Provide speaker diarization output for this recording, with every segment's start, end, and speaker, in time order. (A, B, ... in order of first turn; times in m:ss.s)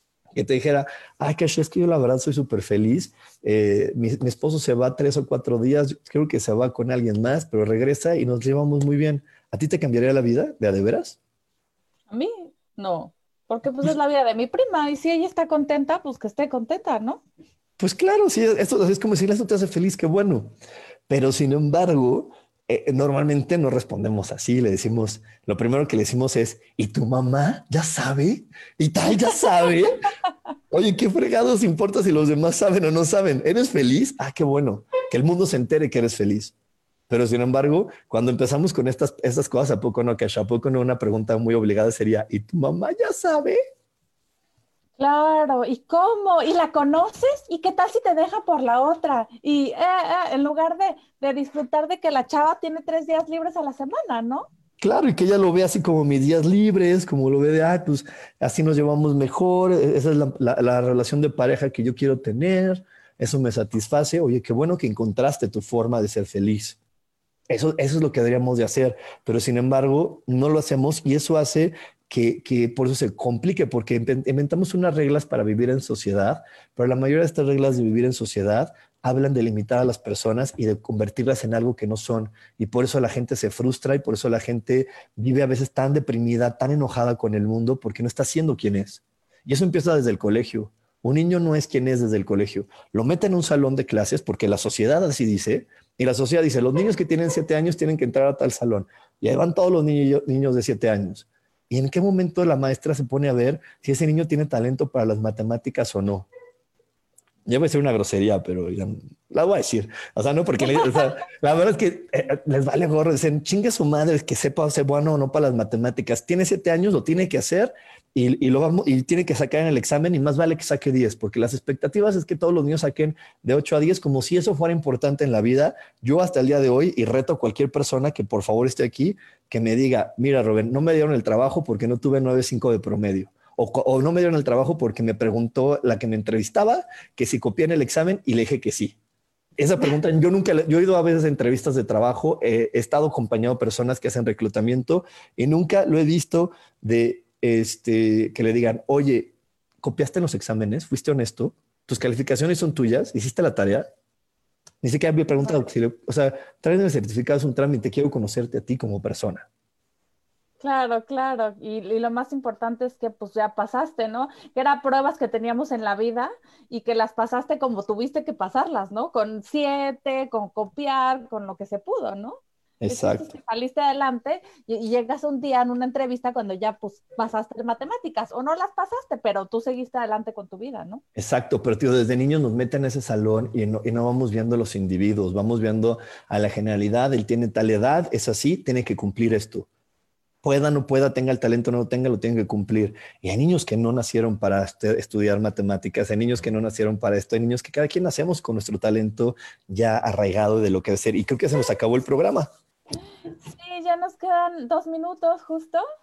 0:00.3-0:11.2 A
0:12.1-0:17.2 B
0:17.8-0:20.5 A
0:21.1-0:30.1 A
0:30.7-0:36.5 A
0:37.1-0:43.6 A
0:45.0-0:54.5 B
0:54.8-1:06.8 A
1:07.5-1:46.3 A
1:47.5-2:19.0 A
2:19.6-2:33.9 A
2:34.8-2:39.5 A
2:40.6-3:01.0 B
2:52.8-2:53.3 A
3:01.2-3:09.7 A
3:10.4-3:22.5 A
3:23.4-3:25.8 B